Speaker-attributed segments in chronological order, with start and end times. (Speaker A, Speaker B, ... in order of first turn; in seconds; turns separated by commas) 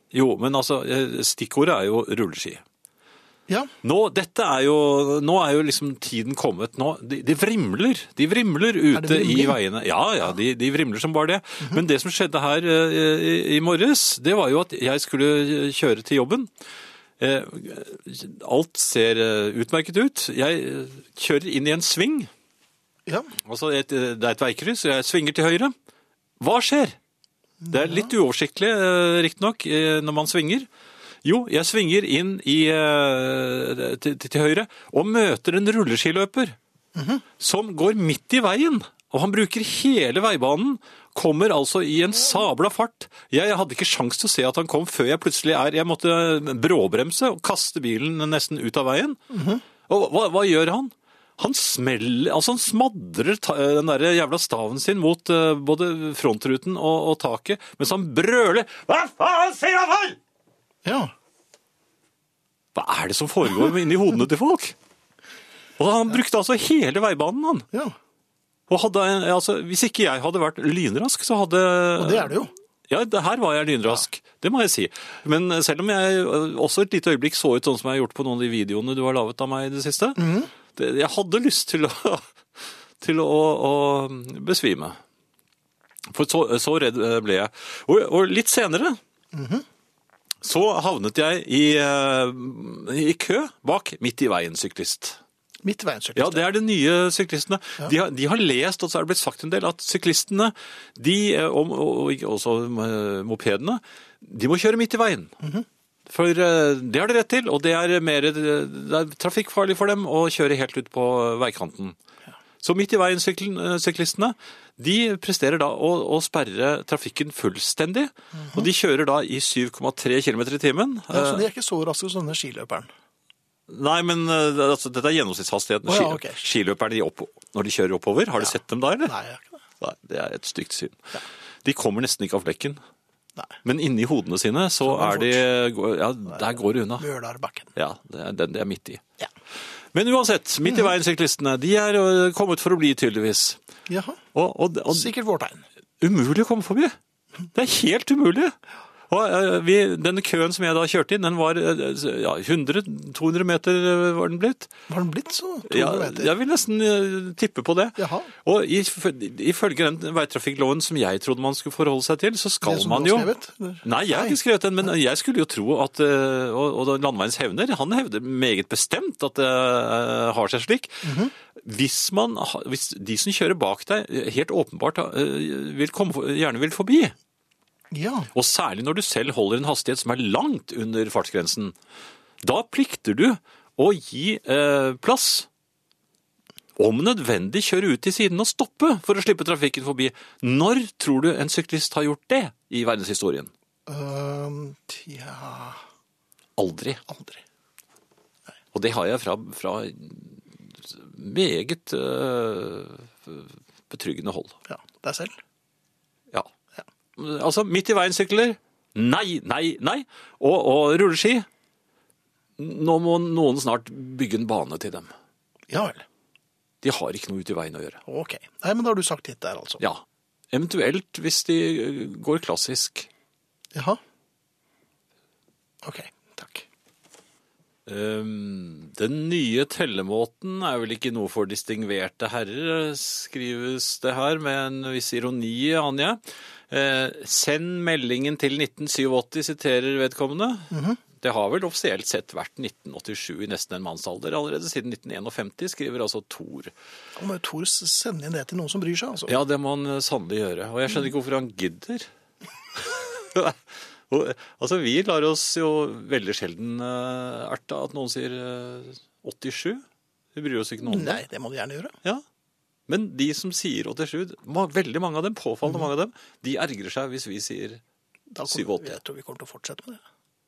Speaker A: 0.1-2.6, Speaker A: 3.8-16.5, Speaker B: 8.9-9.6, Speaker A: 17.2-22.3, Speaker A: 23.4-25.7, Speaker A: 26.4-27.0, Speaker B: 27.6-28.1, Speaker A: 27.7-30.7, Speaker A: 31.2-36.6, Speaker B: 37.0-37.2, Speaker A: 37.4-60.2, Speaker B: 49.3-49.6, Speaker B: 60.9-61.1, Speaker A: 62.8-64.8, Speaker A: 65.8-67.7, Speaker A: 68.7-72.3, Speaker B: 72.0-72.5, Speaker A: 72.9-82.3, Speaker B: 80.2-80.5, Speaker A: 83.0-85.0, Speaker A: 86.1-89.0, Speaker B: 89.3-89.7, Speaker A: 90.4-95.2, Speaker B: 95.6-96.4, Speaker A: 96.2-105.3, Speaker A: 106.1-112.0, Speaker A: 112.6-121.5, Speaker B: 118.4-118.7, Speaker B: 121.1-122.9, Speaker A: 123.7-129.2, Speaker B: 125.9-126.4, Speaker B: 129.1-129.6, Speaker A: 129.8-132.8, Speaker A: 133.6-137.1, Speaker B: 134.8-135.4, Speaker B: 137.0-137.7, Speaker A: 137.8-139.0, Speaker A: 139.9-143.6, Speaker B: 143.9-144.2, Speaker A: 144.3-145.1, Speaker B: 144.9-145.7, Speaker A: 146.0-147.0, Speaker A: 147.5-148.6, Speaker A: 149.1-154.7, Speaker B: 154.9-156.3, Speaker A: 155.7-163.3, Speaker B: 158.0-158.3, Speaker B: 162.6-164.4, Speaker A: 163.8-177.2, Speaker B: 171.0-171.3, Speaker B: 177.9-178.3, Speaker A: 178.3-181.8, Speaker A: 182.4-185.5, Speaker A: 186.8-193.5, Speaker B: 193.9-195.8, Speaker A: 196.6-197.0, Speaker B: 197.1-197.4, Speaker A: 198.7-204.6, Speaker B: 204.7-205.4, Speaker A: 207.2-211.5, Speaker A: 212.6-215.1, Speaker B: 215.7-216.1, Speaker A: 216.8-218.0, Speaker B: 218.1-219.8, Speaker A: 219.8-223.1, Speaker B: 223.7-224.0, Speaker B: 225.8-226.7, Speaker A: 227.9-246.7, Speaker B: 240.7-241.0, Speaker B: 247.2-249.3, Speaker A: 249.3-252.1, Speaker A: 252.8-259.8, Speaker A: 260.4-261.2, Speaker B: 260.8-261.9, Speaker A: 262.9-267.8, Speaker B: 268.3-270.0, Speaker A: 268.5-269.0